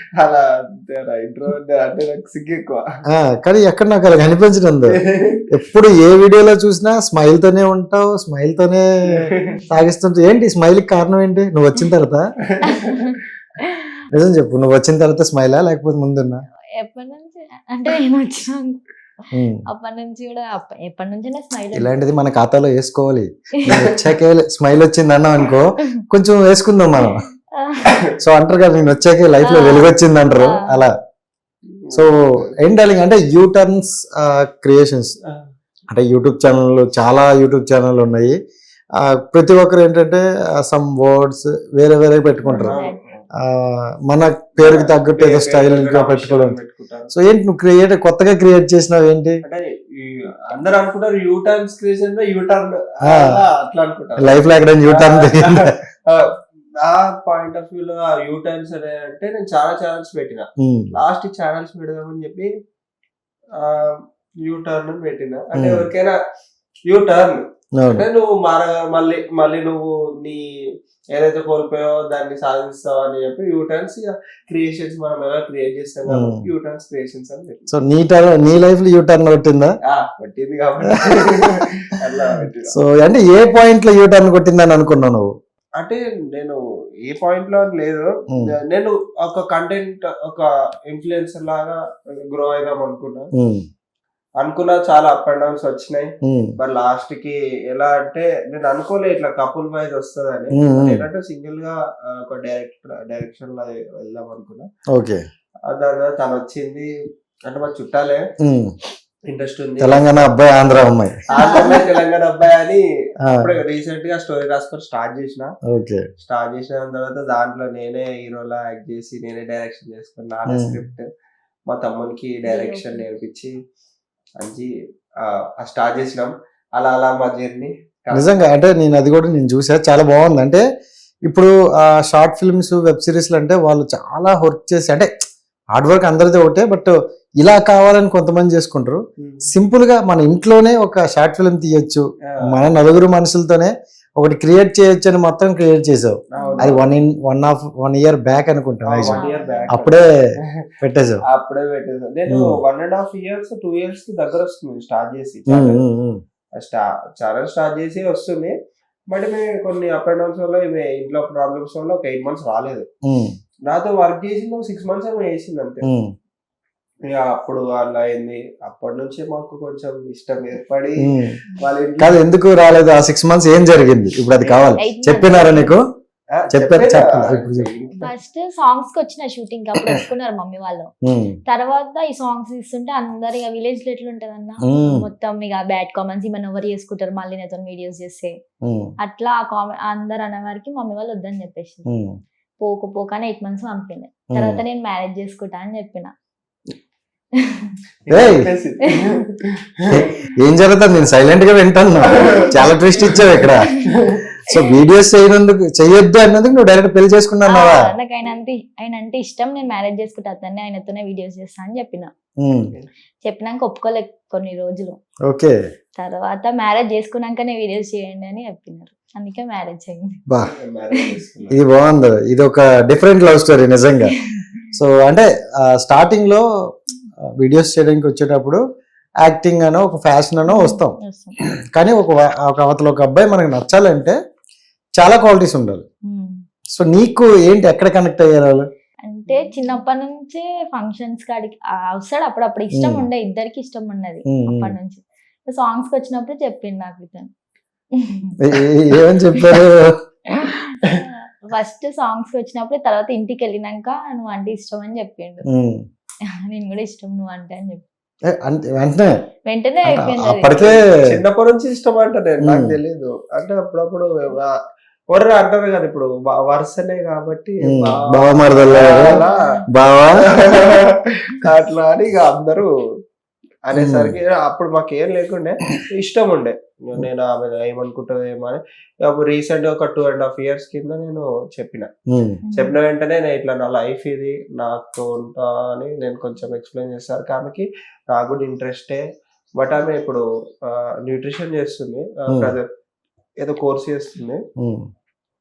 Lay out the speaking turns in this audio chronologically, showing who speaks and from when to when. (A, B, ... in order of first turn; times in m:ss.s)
0:00.2-0:02.8 A
0:03.1-0:05.0 B
0:04.9-0:05.4 A
0:05.5-0:08.8 B
0:09.7-0:12.2 B
0:12.7-0:13.1 C
0:14.1-0:16.4 B
0:16.8-0:18.8 C
0:19.4-0:19.6 B
0:19.7-0:21.9 C
0:21.7-0:27.2 B
0:27.0-0:27.8 C
0:28.2-0:30.9 B
0:29.5-0:30.6 C
0:31.8-0:32.5 A
0:31.9-0:35.1 B
0:35.9-0:38.4 B
0:39.0-0:42.8 B
0:42.5-0:43.0 C
0:42.5-0:43.2 A
0:43.5-0:46.6 B
0:44.6-0:47.1 A
0:47.1-0:49.4 B
0:49.4-0:56.2 A
0:53.0-0:53.3 B
0:54.2-0:55.7 B
0:56.8-1:02.5 A
1:00.6-1:00.9 B
1:03.6-1:03.9 A
1:04.4-1:06.1 A
1:05.6-1:05.9 B
1:06.9-1:07.4 A
1:07.8-1:08.0 B
1:07.9-1:10.4 A
1:11.2-1:17.7 A
1:16.1-1:16.4 B
1:17.7-1:19.7 B
1:19.9-1:22.8 A
1:21.3-1:21.6 B
1:22.7-1:25.3 B
1:25.8-1:31.8 A
1:32.3-1:33.3 A
1:33.3-1:33.6 B
1:34.4-1:44.7 A
1:36.2-1:36.5 B
1:40.5-1:41.0 B
1:44.9-1:45.2 B
1:45.7-1:46.9 A
1:47.5-1:48.2 A
1:48.4-1:48.7 B
1:49.3-1:50.3 A
1:49.8-1:51.2 B
1:51.3-1:55.5 A
1:51.3-1:51.7 C
1:55.7-1:56.0 B
1:56.2-2:01.0 A
2:00.5-2:00.8 B
2:01.7-2:03.5 A
2:02.5-2:03.0 C
2:04.4-2:04.7 A
2:05.6-2:08.3 A
2:08.1-2:10.6 B
2:11.3-2:15.1 B
2:15.7-2:30.0 B
2:26.3-2:26.8 A
2:26.4-2:26.8 C
2:28.9-2:30.4 A
2:29.1-2:29.7 C
2:30.8-2:31.2 B
2:31.3-2:35.8 A
2:35.5-2:36.2 B
2:36.6-2:38.6 A
2:39.1-2:42.9 A
2:43.0-2:43.3 B
2:43.7-2:45.9 A
2:45.8-2:46.1 B
2:47.1-2:51.0 A
2:51.0-2:51.3 B
2:51.6-2:52.2 A
2:52.0-2:55.8 B
2:54.4-2:54.8 A
2:54.8-2:55.8 C
2:56.4-2:58.1 A
2:56.5-2:57.7 B
2:58.0-3:00.9 C
3:01.0-3:01.3 B
3:01.5-3:08.3 C
3:04.7-3:05.1 B
3:08.6-3:08.9 B
3:09.0-3:11.9 C
3:11.9-3:12.1 B
3:12.6-3:16.1 C
3:14.3-3:14.6 B
3:18.1-3:19.2 A
3:18.1-3:18.4 B
3:19.9-3:23.7 B
3:23.0-3:24.2 A
3:24.5-3:27.9 B
3:27.5-3:32.1 C
3:32.4-3:32.7 B
3:33.2-3:35.0 C
3:35.3-3:35.6 B
3:36.0-3:40.2 C
3:40.4-3:41.6 A
3:41.5-3:44.1 B
3:44.8-3:46.4 B
3:47.4-3:48.6 B
3:49.2-3:51.0 B
3:50.5-3:51.4 C
3:51.8-3:54.2 B
3:55.0-3:55.8 B
3:56.1-3:56.4 C
3:56.8-3:58.6 B
3:59.0-4:07.3 C
4:02.7-4:03.1 B
4:04.3-4:04.8 B
4:08.0-4:08.3 C
4:08.4-4:10.0 B
4:10.4-4:15.4 C
4:15.5-4:15.8 B
4:16.5-4:17.8 C
4:18.4-4:19.1 B
4:19.5-4:20.6 C
4:19.9-4:20.8 B
4:20.6-4:24.1 A
4:22.4-4:22.8 B
4:25.1-4:29.4 A
4:27.6-4:29.2 B
4:28.8-4:29.6 C
4:29.7-4:30.2 B
4:30.4-4:32.7 A
4:33.7-4:41.9 A
4:33.7-4:34.2 B
4:42.1-4:42.4 B
4:42.4-4:42.8 C
4:42.6-4:49.0 A
4:49.6-4:52.7 A
4:52.3-4:52.6 B
4:53.4-4:54.4 A
4:54.6-4:54.8 B